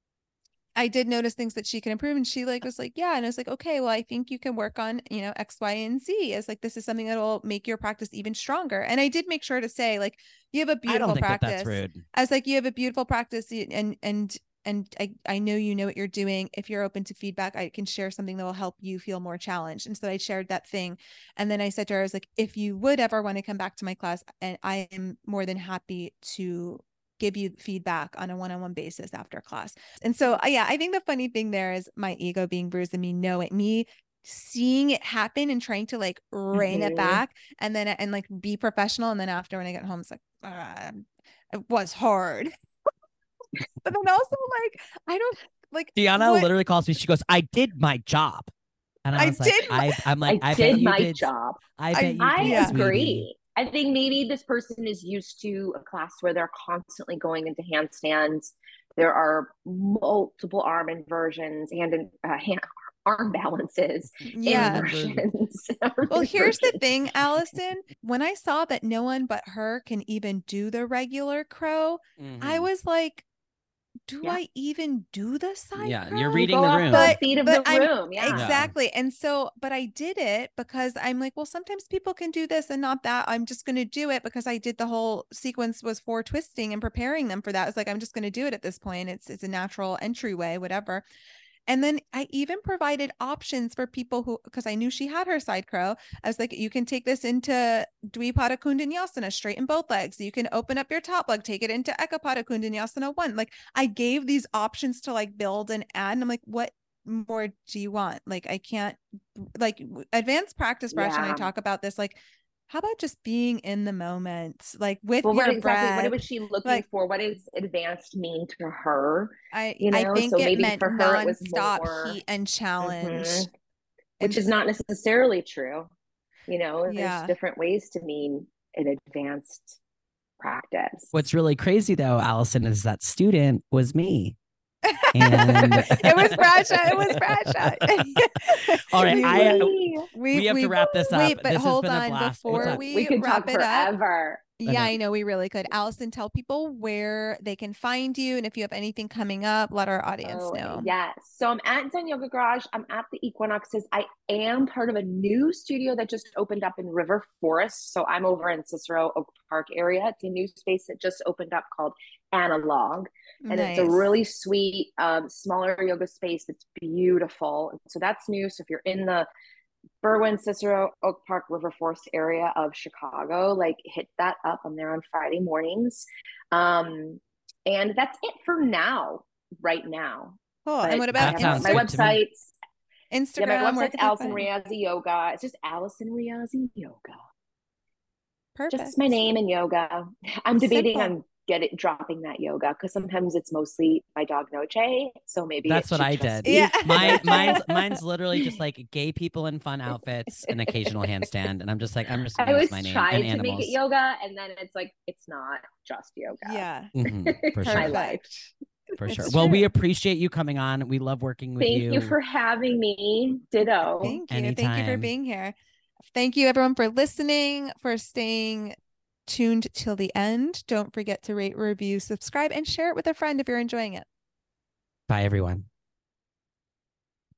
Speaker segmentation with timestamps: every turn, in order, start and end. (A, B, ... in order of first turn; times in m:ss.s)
0:00.8-0:42.5 A
0:10.9-0:12.0 B
0:36.5-0:37.2 C
0:43.8-0:46.5 A
0:46.0-0:48.5 B
0:49.0-0:53.2 B
0:49.2-0:50.0 A
0:50.2-0:51.6 C
0:51.9-0:52.8 A
0:52.2-1:06.8 C
1:04.3-1:04.8 A
1:04.4-1:05.2 B
1:06.1-1:13.2 A
1:12.2-1:12.7 B
1:14.1-1:31.0 A
1:15.8-1:17.2 B
1:16.3-1:18.6 C
1:18.3-1:18.7 B
1:31.7-1:52.2 A
1:50.9-1:51.5 C
1:52.7-1:56.8 A
1:55.2-2:02.2 C
1:59.5-2:03.5 A
2:02.8-2:03.5 C
2:04.2-2:04.5 A
2:04.2-2:05.9 C
2:06.5-2:09.8 C
2:06.9-2:07.3 A
2:10.4-2:11.2 C
2:11.1-2:14.4 B
2:14.8-2:23.9 A
2:15.1-2:22.8 B
2:15.6-2:16.3 C
2:19.1-2:20.1 C
2:22.5-2:24.5 C
2:24.6-2:30.9 A
2:24.7-2:24.9 B
2:30.2-2:49.3 C
2:43.4-2:44.1 A
2:50.0-3:02.5 C
3:00.6-3:01.9 A
3:01.1-3:02.2 B
3:03.1-3:04.4 A
3:03.4-3:07.2 C
3:08.6-3:09.0 A
3:08.7-3:17.6 C
3:10.6-3:11.1 A
3:15.6-3:23.7 B
3:16.4-3:18.0 A
3:20.4-3:21.2 C
3:22.4-3:26.6 C
3:26.4-3:26.9 A
3:27.0-3:27.9 B
3:27.2-3:28.2 C
3:27.6-3:28.5 A
3:29.0-3:32.1 B
3:29.0-3:29.6 A
3:31.6-3:34.2 C
3:34.0-3:44.0 A
3:34.3-3:35.1 B
3:45.1-3:45.7 B